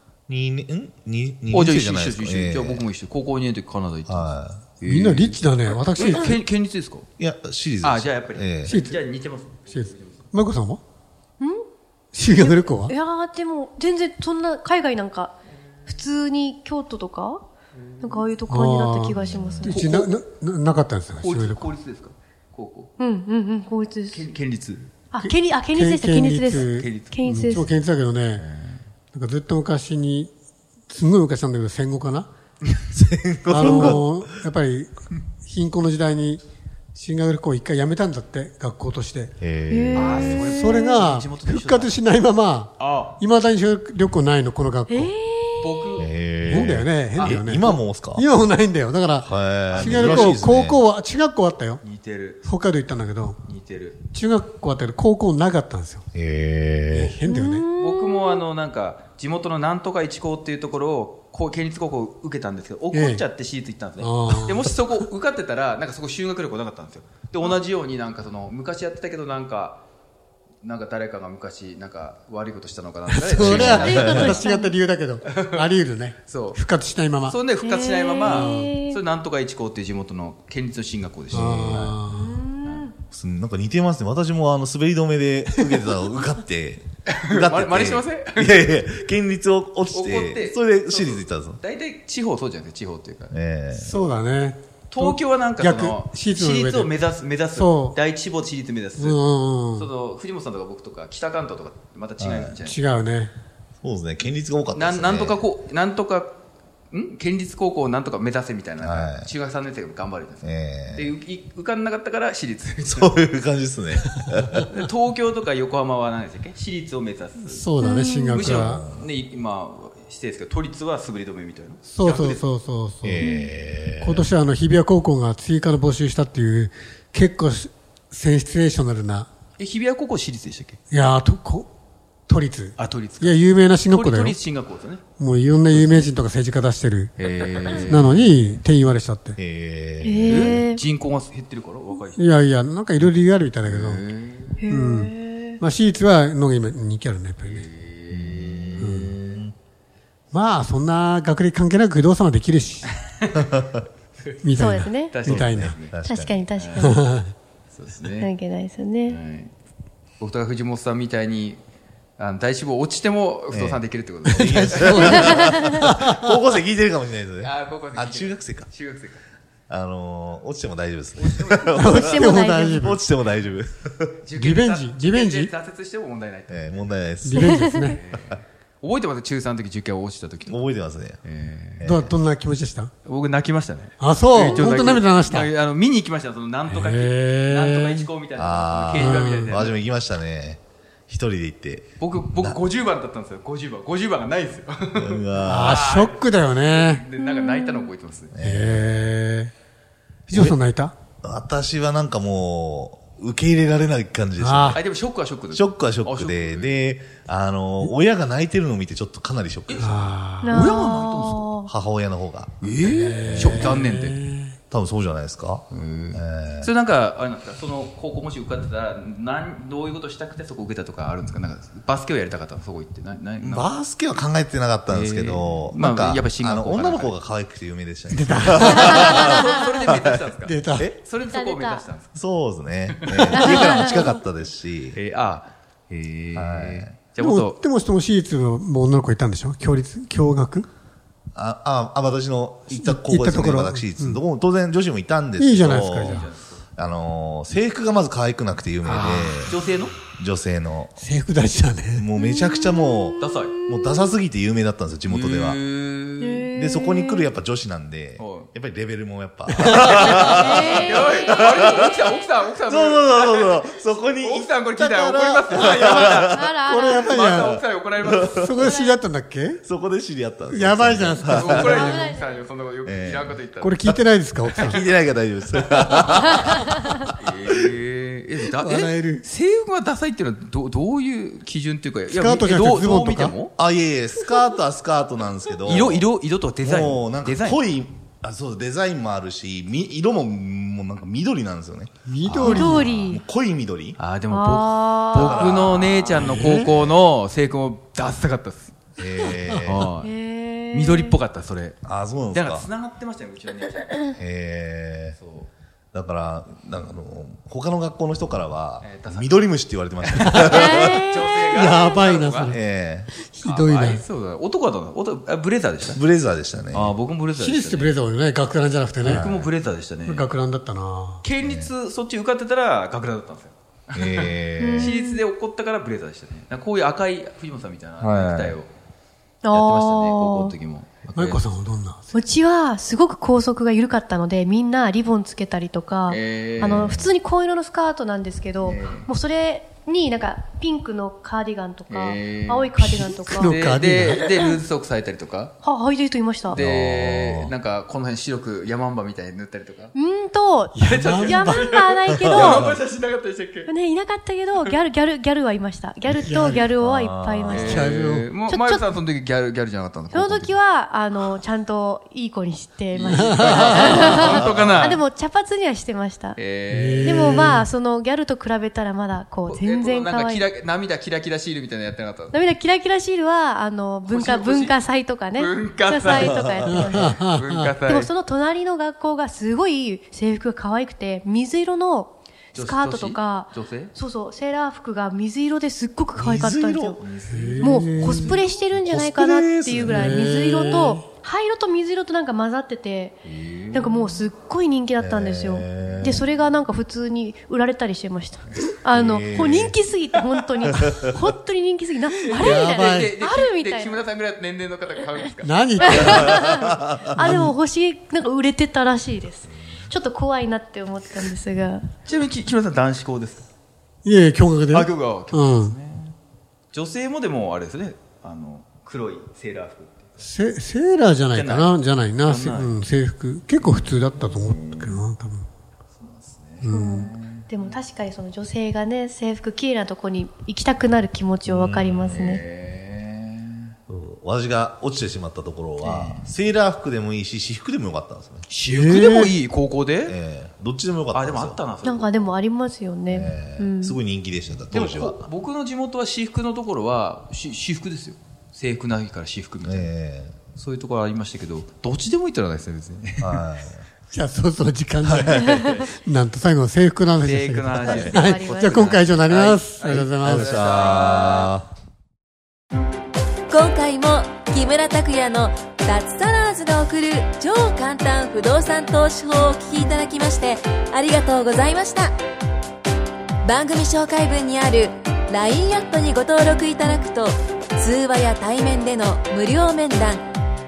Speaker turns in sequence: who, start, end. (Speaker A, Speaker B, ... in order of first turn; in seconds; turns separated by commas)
Speaker A: 0.3-2.9, Speaker B: 1.5-7.0, Speaker A: 4.1-4.6, Speaker C: 4.8-6.4, Speaker A: 7.2-8.8, Speaker B: 7.8-10.2, Speaker C: 8.6-9.0, Speaker C: 9.7-10.8, Speaker C: 12.1-12.9, Speaker D: 12.3-15.3, Speaker D: 15.8-17.4, Speaker D: 18.0-19.9, Speaker C: 18.5-21.7, Speaker A: 19.3-19.5, Speaker B: 19.6-20.2, Speaker B: 21.1-22.9, Speaker D: 23.0-24.2, Speaker B: 24.1-24.9, Speaker D: 25.1-27.7, Speaker C: 25.2-28.4, Speaker B: 26.5-27.7, Speaker B: 28.4-28.8, Speaker C: 29.1-30.3, Speaker C: 30.9-32.3, Speaker A: 32.9-34.2, Speaker C: 33.5-34.9, Speaker D: 33.5-34.0, Speaker C: 35.4-36.4, Speaker C: 36.9-39.3, Speaker A: 39.4-40.5, Speaker D: 39.7-41.0, Speaker B: 39.9-41.9, Speaker C: 40.2-45.1, Speaker B: 42.8-43.2, Speaker D: 44.9-46.0, Speaker B: 45.6-47.8, Speaker A: 46.0-48.2, Speaker C: 46.4-51.8, Speaker A: 49.2-50.8, Speaker B: 49.7-50.4, Speaker B: 51.8-52.4, Speaker C: 52.4-53.4, Speaker B: 53.4-54.0, Speaker C: 54.1-56.1, Speaker A: 56.1-57.1, Speaker C: 56.9-57.7, Speaker D: 57.2-58.4, Speaker B: 57.8-69.8, Speaker C: 62.9-63.2, Speaker C: 64.0-64.8, Speaker B: 70.6-74.5, Speaker C: 73.1-77.4, Speaker A: 73.3-74.3, Speaker D: 73.6-74.8, Speaker B: 75.3-75.6, Speaker B: 76.2-76.6, Speaker B: 77.3-82.0, Speaker D: 77.6-79.0, Speaker C: 78.2-78.7, Speaker C: 81.3-82.4, Speaker D: 82.1-82.9, Speaker B: 82.6-82.9, Speaker A: 83.1-91.6, Speaker B: 87.1-88.8, Speaker B: 89.9-93.3, Speaker A: 93.3-94.0, Speaker C: 93.7-96.9, Speaker B: 94.9-99.2, Speaker C: 97.5-98.0, Speaker C: 99.0-99.9, Speaker B: 99.7-102.8, Speaker A: 102.2-102.6, Speaker C: 102.6-103.3, Speaker A: 103.8-105.5, Speaker B: 104.7-106.3, Speaker B: 106.9-113.1, Speaker A: 108.8-109.3, Speaker A: 110.4-111.1, Speaker A: 112.8-114.8, Speaker B: 114.6-117.7, Speaker C: 117.4-118.8, Speaker D: 117.8-118.5, Speaker B: 118.3-122.4, Speaker A: 118.5-119.0, Speaker C: 121.9-123.3, Speaker A: 123.0-124.3, Speaker D: 123.2-123.5, Speaker C: 124.0-129.3, Speaker B: 129.6-130.8, Speaker C: 130.9-131.7, Speaker C: 132.3-134.4, Speaker B: 132.8-135.0, Speaker C: 135.2-137.1, Speaker B: 135.7-136.1, Speaker B: 137.2-138.6, Speaker C: 137.7-139.4, Speaker A: 139.4-140.6, Speaker D: 140.0-140.8, Speaker B: 140.2-142.3, Speaker C: 142.1-144.0, Speaker B: 143.7-144.6, Speaker D: 144.6-145.6, Speaker C: 144.7-147.7, Speaker B: 147.4-149.4, Speaker A: 148.1-149.5, Speaker C: 148.8-149.2, Speaker C: 150.3-152.9, Speaker A: 153.3-153.7, Speaker C: 154.4-155.8, Speaker D: 154.6-155.2, Speaker B: 155.1-156.0, Speaker A: 155.2-156.5, Speaker D: 156.1-157.1, Speaker B: 156.5-157.0, Speaker C: 156.8-157.3, Speaker B: 157.7-158.3, Speaker D: 158.2-159.2, Speaker B: 159.1-159.5, Speaker B: 160.2-161.6, Speaker B: 162.2-165.6, Speaker A: 163.5-168.7, Speaker C: 164.2-166.4, Speaker D: 164.9-165.9, Speaker B: 167.4-169.2, Speaker A: 169.7-174.2, Speaker B: 171.2-172.1, Speaker C: 171.7-173.0, Speaker D: 171.9-172.9, Speaker B: 174.2-176.7, Speaker C: 174.3-175.5, Speaker A: 176.5-178.3, Speaker C: 177.2-178.0, Speaker D: 177.3-177.9, Speaker B: 177.7-180.6, Speaker A: 180.4-181.2, Speaker B: 181.2-181.9, Speaker A: 181.8-182.1, Speaker C: 181.8-182.9, Speaker B: 183.0-189.8, Speaker C: 184.0-185.5, Speaker C: 186.7-188.1, Speaker A: 188.3-192.6, Speaker C: 188.9-189.6, Speaker B: 192.0-198.3, Speaker A: 194.9-195.8, Speaker C: 195.4-197.0, Speaker D: 197.2-197.9, Speaker A: 198.3-199.0, Speaker C: 198.4-199.5, Speaker C: 200.3-200.9, Speaker A: 201.2-204.8, Speaker C: 204.4-204.8, Speaker B: 204.7-206.8, Speaker A: 205.5-210.1, Speaker B: 209.7-211.4, Speaker C: 209.8-211.4, Speaker D: 210.4-211.7, Speaker A: 211.7-213.8, Speaker B: 212.6-214.2, Speaker C: 212.8-214.6, Speaker A: 214.7-216.7, Speaker B: 215.7-223.7, Speaker A: 223.4-230.2, Speaker B: 224.9-227.2, Speaker C: 228.1-229.8, Speaker B: 228.7-232.1, Speaker D: 228.8-229.4, Speaker C: 230.4-230.9, Speaker D: 231.1-231.8, Speaker A: 232.1-235.0, Speaker B: 232.9-233.9, Speaker D: 233.3-233.9, Speaker B: 234.9-237.6, Speaker A: 236.3-236.9, Speaker C: 237.2-240.7, Speaker A: 241.3-250.9, Speaker C: 242.7-244.2, Speaker C: 245.4-246.3, Speaker B: 245.7-246.6, Speaker C: 248.8-249.6, Speaker B: 249.4-250.0, Speaker C: 251.0-252.1, Speaker A: 252.0-255.6, Speaker D: 252.2-254.1, Speaker B: 253.2-253.6, Speaker B: 255.1-256.5, Speaker D: 256.2-257.3, Speaker A: 256.5-261.9, Speaker B: 258.2-258.5, Speaker C: 259.5-260.5, Speaker B: 259.8-268.5, Speaker D: 260.3-261.3, Speaker A: 262.7-266.6, Speaker C: 265.3-265.7, Speaker D: 266.1-267.3, Speaker C: 266.6-267.6, Speaker A: 267.3-268.5, Speaker C: 268.2-269.6, Speaker D: 268.6-269.0, Speaker A: 269.6-271.9, Speaker C: 270.5-272.1, Speaker B: 271.2-273.9, Speaker D: 271.5-272.4, Speaker A: 272.8-274.0, Speaker C: 273.6-274.8, Speaker B: 274.4-274.8, Speaker A: 274.6-276.7, Speaker B: 275.8-276.3, Speaker D: 276.5-276.9, Speaker B: 277.2-283.5, Speaker C: 278.5-279.2, Speaker C: 282.1-283.3, Speaker A: 283.6-286.1, Speaker B: 285.6-287.6, Speaker A: 286.6-294.0, Speaker C: 292.1-292.9, Speaker B: 292.3-292.9, Speaker D: 292.4-293.2, Speaker B: 294.0-298.8, Speaker D: 294.3-295.6, Speaker A: 295.1-297.0, Speaker C: 296.1-296.7, Speaker A: 299.0-299.9, Speaker C: 299.3-299.8, Speaker B: 299.5-300.1, Speaker D: 300.0-301.2, Speaker B: 300.7-301.8, Speaker A: 301.8-302.7, Speaker B: 302.3-304.2, Speaker A: 304.2-305.2, Speaker B: 305.1-305.5, Speaker A: 305.9-311.1, Speaker B: 308.8-312.6, Speaker C: 310.2-312.6, Speaker D: 310.5-311.9, Speaker A: 312.5-313.1, Speaker C: 313.1-314.0, Speaker B: 313.4-316.0, Speaker A: 315.9-316.9, Speaker B: 316.7-317.9, Speaker C: 317.4-319.2, Speaker B: 319.0-320.3, Speaker A: 319.0-319.5, Speaker C: 320.1-321.2, Speaker B: 321.2-328.7, Speaker A: 321.4-321.7, Speaker A: 323.9-324.9, Speaker D: 324.6-325.2, Speaker A: 328.0-328.6, Speaker D: 329.4-330.5, Speaker B: 329.5-331.4, Speaker C: 331.1-332.1, Speaker D: 332.1-343.7, Speaker B: 336.1-337.0, Speaker A: 336.7-337.1, Speaker B: 338.6-339.1, Speaker B: 341.9-345.5, Speaker C: 342.8-344.3, Speaker D: 345.6-346.6, Speaker B: 346.5-349.9, Speaker A: 346.5-347.5, Speaker D: 349.9-352.7, Speaker C: 350.7-351.8, Speaker B: 350.8-353.7, Speaker A: 352.1-352.7, Speaker D: 353.7-357.8, Speaker C: 356.1-356.7, Speaker A: 356.8-357.9, Speaker B: 357.5-360.6, Speaker C: 357.6-358.3, Speaker D: 358.5-358.9, Speaker D: 360.1-366.4, Speaker B: 362.9-365.0, Speaker C: 363.0-364.0, Speaker A: 364.3-364.8, Speaker B: 366.4-367.6, Speaker C: 366.7-367.7, Speaker D: 367.0-370.5, Speaker B: 369.5-372.5, Speaker D: 372.3-377.2, Speaker B: 374.1-374.8, Speaker B: 375.3-378.1, Speaker A: 376.1-376.5, Speaker C: 376.7-377.7, Speaker D: 377.8-387.0, Speaker B: 382.5-383.9, Speaker A: 386.2-390.8, Speaker B: 387.0-387.8, Speaker C: 387.3-388.4, Speaker D: 387.6-393.1, Speaker C: 389.8-391.0, Speaker B: 393.2-394.2, Speaker D: 393.7-404.1, Speaker A: 395.0-396.2, Speaker A: 398.9-399.8, Speaker A: 400.7-401.1, Speaker B: 402.3-406.5, Speaker C: 402.4-403.1, Speaker C: 405.4-406.5, Speaker D: 405.8-411.9, Speaker A: 406.7-407.3, Speaker C: 407.2-407.6, Speaker B: 412.0-413.5, Speaker C: 414.0-415.8, Speaker B: 414.7-416.1, Speaker B: 416.7-420.1, Speaker C: 420.2-425.5, Speaker B: 421.3-422.8, Speaker B: 423.6-425.0, Speaker B: 425.9-427.8, Speaker C: 426.6-427.1, Speaker D: 426.6-432.4, Speaker A: 431.5-432.4, Speaker B: 432.1-433.7, Speaker A: 433.9-438.5, Speaker B: 435.8-436.2, Speaker B: 438.5-440.1, Speaker C: 438.7-439.3, Speaker A: 440.1-441.6, Speaker B: 441.1-442.2, Speaker D: 441.8-444.0, Speaker A: 443.1-445.3, Speaker B: 444.7-449.9, Speaker A: 449.6-450.4, Speaker B: 450.5-453.4, Speaker A: 453.2-453.8, Speaker C: 454.1-460.6, Speaker A: 455.0-455.8, Speaker D: 455.4-455.8, Speaker B: 457.2-461.5, Speaker D: 457.7-459.0, Speaker A: 457.8-458.1, Speaker A: 460.2-461.7, Speaker E: 463.5-472.1, Speaker E: 473.4-480.2